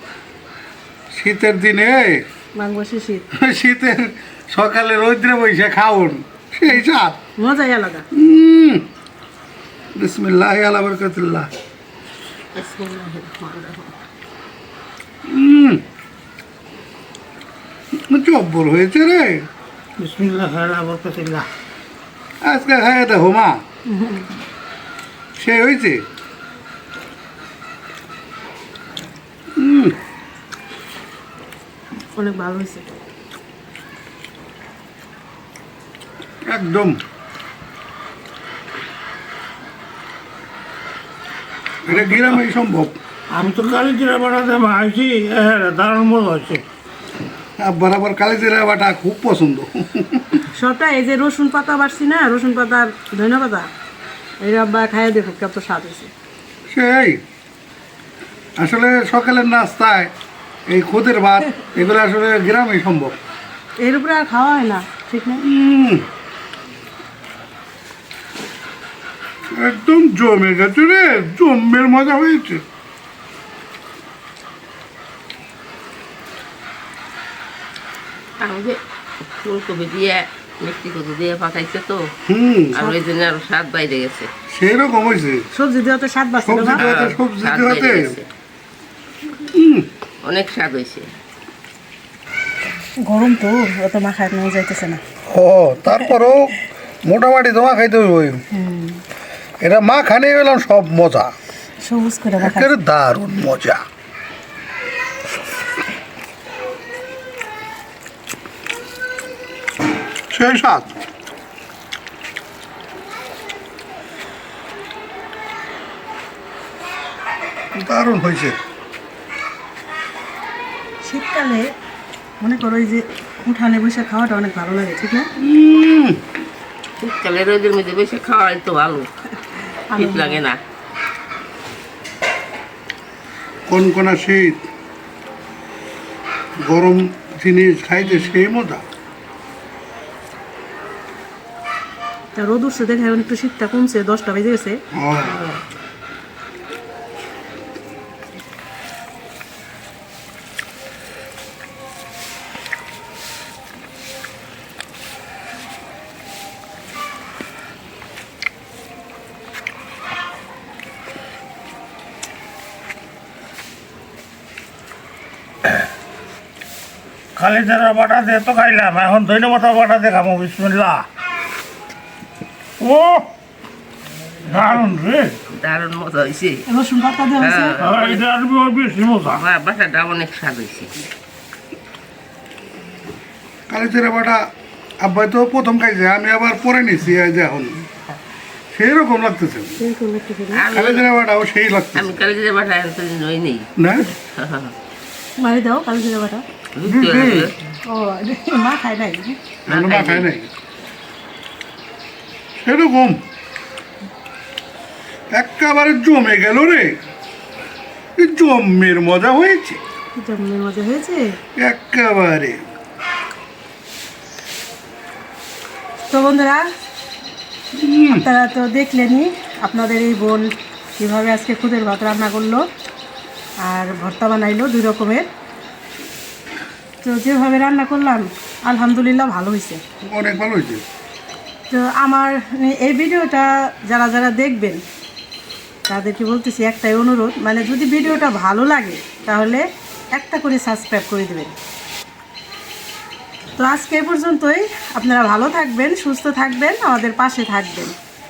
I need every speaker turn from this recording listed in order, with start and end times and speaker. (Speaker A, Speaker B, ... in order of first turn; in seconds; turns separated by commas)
Speaker A: 1.1-2.2, Speaker B: 2.5-3.3, Speaker A: 3.3-7.2, Speaker B: 7.4-8.1, Speaker A: 8.1-8.9, Speaker A: 9.9-11.5, Speaker B: 12.6-13.8, Speaker A: 15.2-15.8, Speaker A: 17.9-19.5, Speaker C: 20.0-21.5, Speaker A: 22.4-23.6, Speaker B: 23.9-24.3, Speaker A: 25.4-26.1, Speaker A: 29.6-30.0, Speaker B: 32.1-32.9, Speaker A: 36.4-37.0, Speaker A: 41.8-43.0, Speaker C: 41.9-42.4, Speaker C: 43.3-46.6, Speaker A: 47.6-50.5, Speaker B: 50.4-53.7, Speaker B: 54.4-56.1, Speaker A: 56.7-57.2, Speaker A: 58.6-60.1, Speaker A: 60.7-63.2, Speaker B: 63.8-65.5, Speaker A: 65.4-66.0, Speaker A: 69.5-72.6, Speaker D: 78.4-82.1, Speaker A: 82.2-82.8, Speaker D: 82.7-84.3, Speaker A: 84.5-85.5, Speaker B: 85.5-86.9, Speaker A: 86.5-88.2, Speaker D: 86.8-88.3, Speaker A: 89.5-89.9, Speaker D: 90.2-91.1, Speaker B: 93.0-95.0, Speaker A: 95.2-98.4, Speaker B: 98.5-99.0, Speaker A: 99.6-101.3, Speaker B: 101.8-102.8, Speaker A: 102.4-103.8, Speaker A: 110.3-111.0, Speaker A: 117.7-118.6, Speaker B: 121.0-121.7, Speaker B: 122.4-125.3, Speaker A: 125.4-126.2, Speaker D: 127.0-129.1, Speaker B: 129.9-130.4, Speaker D: 129.9-130.6, Speaker A: 133.7-134.7, Speaker A: 136.6-138.8, Speaker B: 142.3-144.8, Speaker A: 144.9-145.4, Speaker D: 145.2-145.6, Speaker C: 167.3-171.1, Speaker C: 172.8-173.3, Speaker C: 174.4-175.4, Speaker D: 175.5-176.6, Speaker B: 176.7-177.8, Speaker D: 177.4-178.2, Speaker C: 177.8-179.4, Speaker D: 179.3-180.9, Speaker A: 183.7-187.8, Speaker A: 188.7-189.8, Speaker B: 189.8-190.7, Speaker D: 190.5-191.1, Speaker A: 190.7-192.2, Speaker D: 191.9-194.7, Speaker A: 193.8-194.1, Speaker B: 195.4-196.4, Speaker D: 196.8-197.5, Speaker C: 196.9-197.5, Speaker B: 197.8-199.4, Speaker A: 199.7-200.5, Speaker D: 199.7-200.3, Speaker A: 202.6-203.2, Speaker A: 205.3-207.0, Speaker A: 208.2-209.8, Speaker B: 210.2-211.4, Speaker A: 211.6-212.7, Speaker B: 216.1-216.7, Speaker A: 217.7-218.3, Speaker B: 218.1-222.7, Speaker B: 223.6-225.3, Speaker B: 227.0-229.8, Speaker A: 230.0-230.8, Speaker B: 231.7-234.8, Speaker B: 235.9-241.5, Speaker B: 243.6-247.9